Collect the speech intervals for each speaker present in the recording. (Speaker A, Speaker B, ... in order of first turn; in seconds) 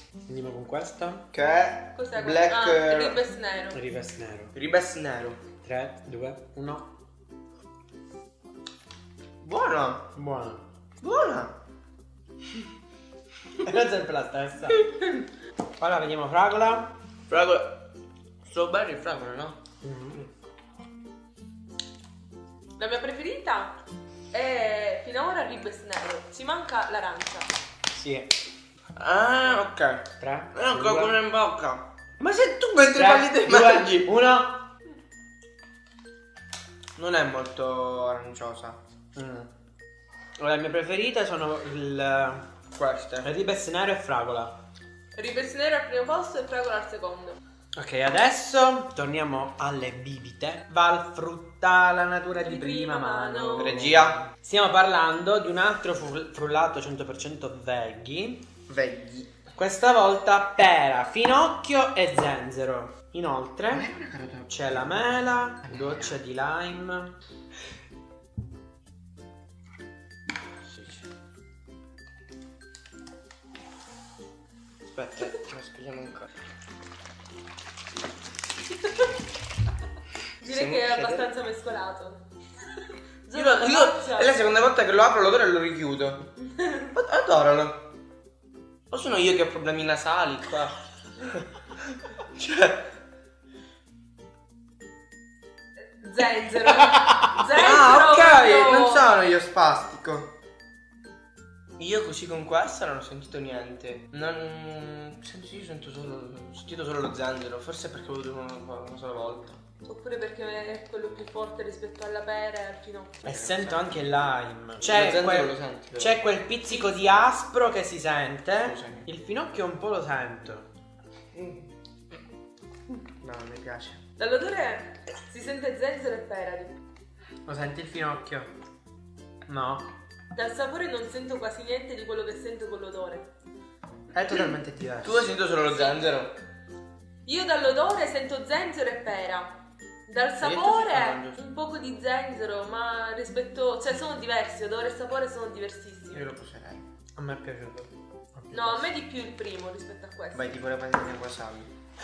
Speaker A: 0.3-1.2, 3.7-4.5, 5.6-6.9, 10.1-10.6, 13.6-14.9, 15.8-16.9, 19.8-20.2, 27.9-28.3, 30.2-31.2, 32.2-34.6, 39.1-39.5, 40.4-42.4, 43.2-44.5, 47.8-58.4, 59.5-63.9, 64.5-67.1, 96.7-97.4, 113.2-120.7, 127.4-128.5, 129.5-129.9, 134.1-135.3, 147.2-148.8
Speaker B: 1.3-3.2, 4.5-5.4, 9.4-10.0, 11.0-11.5, 17.3-17.7, 18.4-19.6, 28.9-31.8, 32.7-34.1, 37.0-38.8, 42.7-43.3, 53.6-54.2, 58.7-59.3, 63.7-65.1, 70.7-71.0, 74.8-76.3, 80.4-81.3, 83.3-86.3, 86.9-87.8, 88.9-90.7, 92.3-92.8, 97.5-100.3, 101.8-109.6, 113.2-113.8, 114.8-116.2, 118.6-119.1, 121.3-121.7, 123.2-124.0, 135.0-136.3, 140.4-141.4, 146.1-146.8, 150.3-151.7
Speaker C: 1.9-3.8, 22.8-23.7, 24.3-27.5, 45.1-47.4, 52.3-53.7, 80.4-82.2, 83.3-84.3, 86.6-86.9, 96.0-99.1, 109.8-113.1, 116.7-117.2, 124.2-126.8, 130.3-133.2, 135.7-136.1, 137.2-139.5, 140.1-146.2, 148.5-150.5